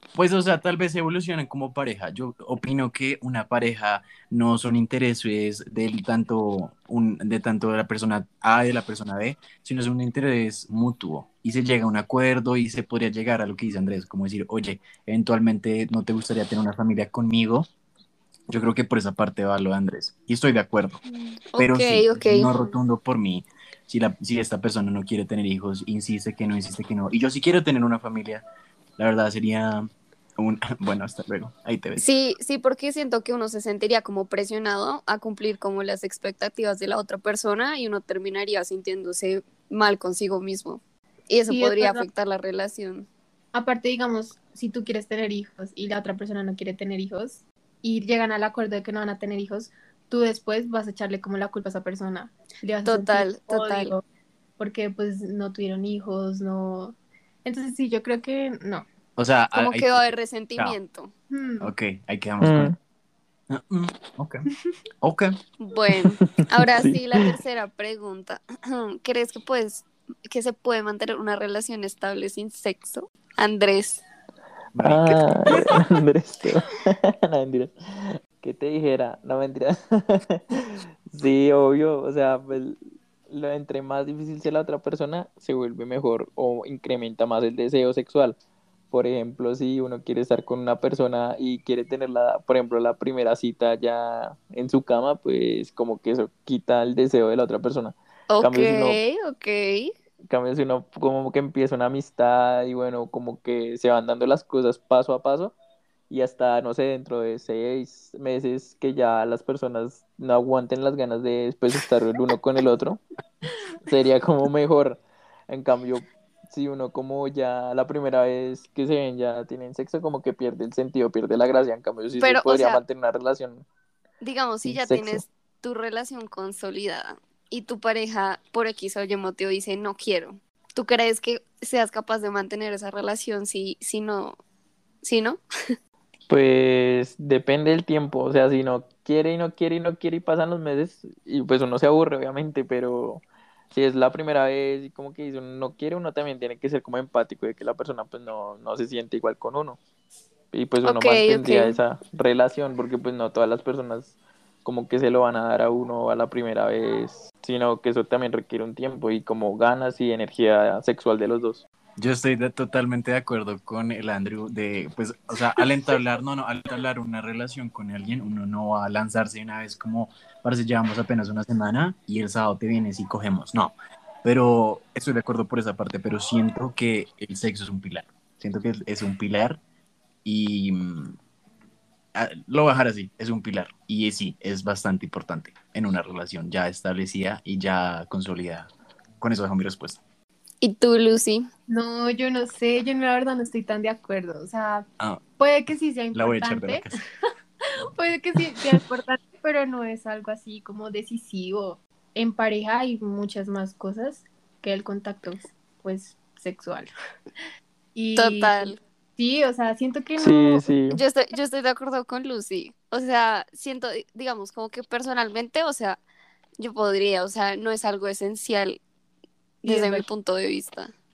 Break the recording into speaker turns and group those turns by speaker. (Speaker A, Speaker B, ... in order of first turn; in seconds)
Speaker A: 0.1-17.7, 18.5-21.0, 21.6-28.4, 29.0-32.0, 59.1-60.8, 61.6-62.7, 63.5-64.4, 65.0-65.3, 74.7-75.8, 162.0-179.6, 180.2-181.2, 182.1-188.7, 189.2-190.0, 196.1-196.9
Speaker B: 21.5-22.5, 32.0-43.1, 52.8-53.9, 59.5-61.1, 65.6-74.0, 98.3-99.9, 122.2-122.8, 124.2-134.4, 135.0-135.4, 150.8-151.8, 190.6-191.5, 208.1-208.8, 210.9-216.0, 216.6-218.8, 219.6-220.9
Speaker C: 41.5-42.1, 43.5-54.0, 54.6-58.9, 61.3-61.7, 191.7-194.9, 195.4-197.0, 197.9-206.9, 207.9-210.7, 219.6-220.1
Speaker D: 62.4-62.7, 66.2-67.3, 74.8-88.4, 88.9-99.0, 100.3-105.5, 106.1-113.0, 113.8-123.7, 124.6-125.2, 136.3-149.8, 150.5-161.6, 210.2-211.0